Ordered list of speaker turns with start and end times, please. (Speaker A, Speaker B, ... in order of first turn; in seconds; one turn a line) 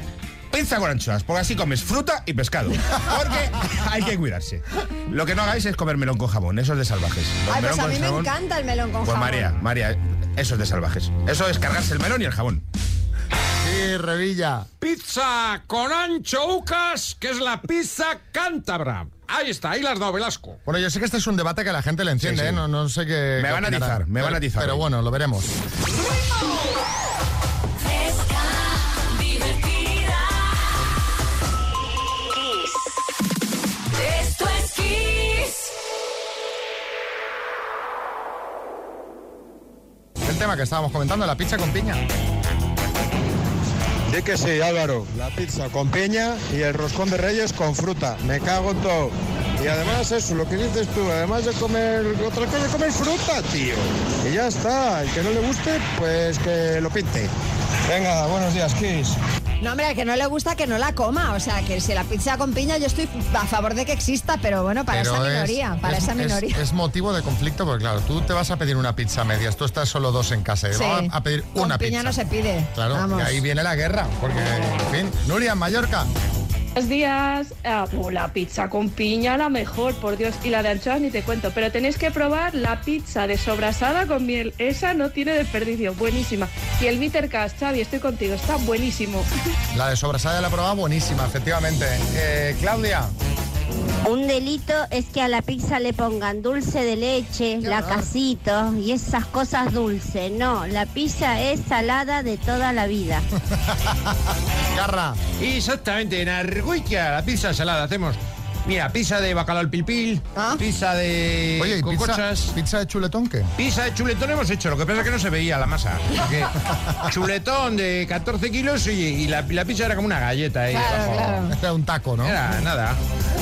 Speaker A: 0.5-8.3
Speaker B: 7.5-9.5
Speaker A: 9.0-12.6
Speaker C: 13.6-14.7
Speaker D: 14.8-20.6
Speaker C: 20.6-25.6
Speaker A: 22.2-22.6
Speaker A: 23.4-24.9
Speaker C: 40.2-42.0
Speaker E: 44.1-57.3
Speaker E: 57.9-59.2
Speaker B: 59.6-66.6
Speaker C: 64.9-72.2
Speaker B: 70.7-73.4
Speaker C: 72.7-76.1
Speaker F: 76.8-89.3
Speaker C: 89.7-93.1
Speaker G: 94.0-103.2
Speaker C: 97.6-98.1
Speaker C: 103.5-104.2
Speaker C: 104.7-105.2
Speaker D: 105.4-112.5
Speaker B: 110.3-110.6
Speaker C: 111.6-113.5
Speaker D: 113.6-116.5
Speaker D: 117.0-121.3
Speaker B: 120.7-121.5
Speaker C: 121.0-122.4
Speaker D: 122.2-123.0